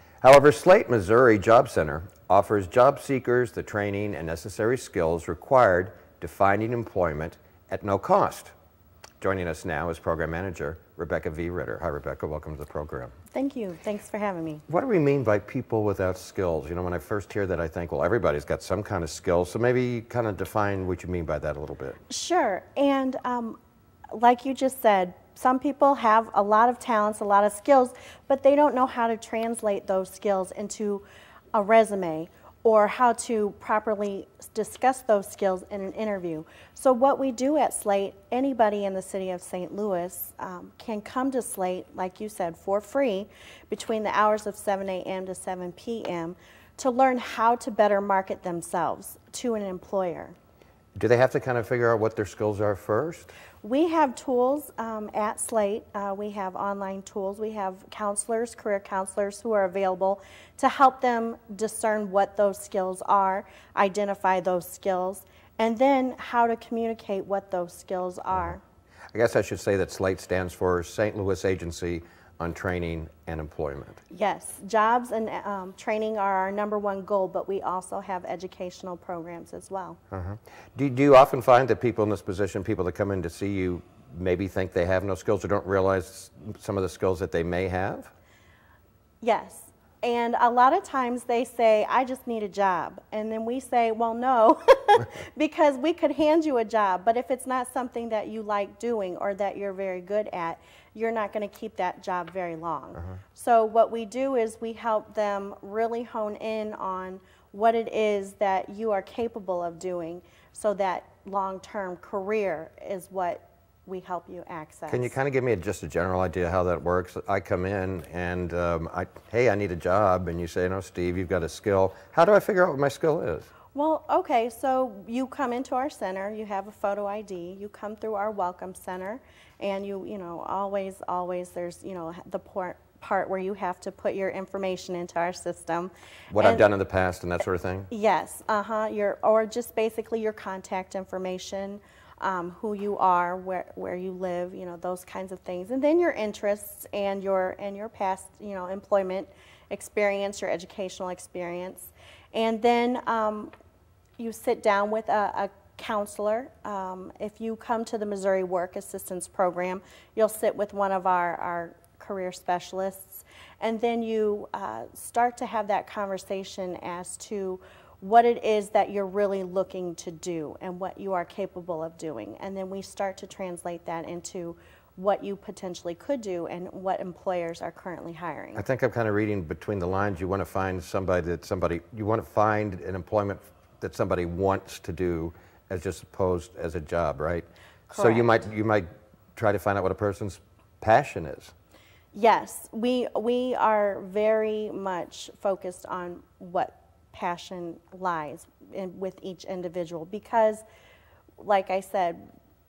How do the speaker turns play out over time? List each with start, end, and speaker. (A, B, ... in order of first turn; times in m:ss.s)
0:00.2-0:08.5 A
0:09.2-0:13.1 A
0:13.3-0:14.6 B
0:14.7-0:22.0 A
0:22.1-0:23.6 B
0:24.1-0:50.4 B
0:51.0-0:53.3 A
0:53.6-1:08.6 B
1:09.1-1:14.0 A
1:14.1-1:20.0 B
1:20.1-1:28.1 A
1:29.2-1:55.1 B
1:54.9-2:03.5 A
2:03.7-2:16.7 B
2:16.3-2:17.9 A
2:17.9-2:33.5 B
2:34.2-2:58.6 B
2:58.6-3:11.5 A
3:07.9-3:08.4 B
3:12.1-3:20.6 B
3:21.4-3:22.3 B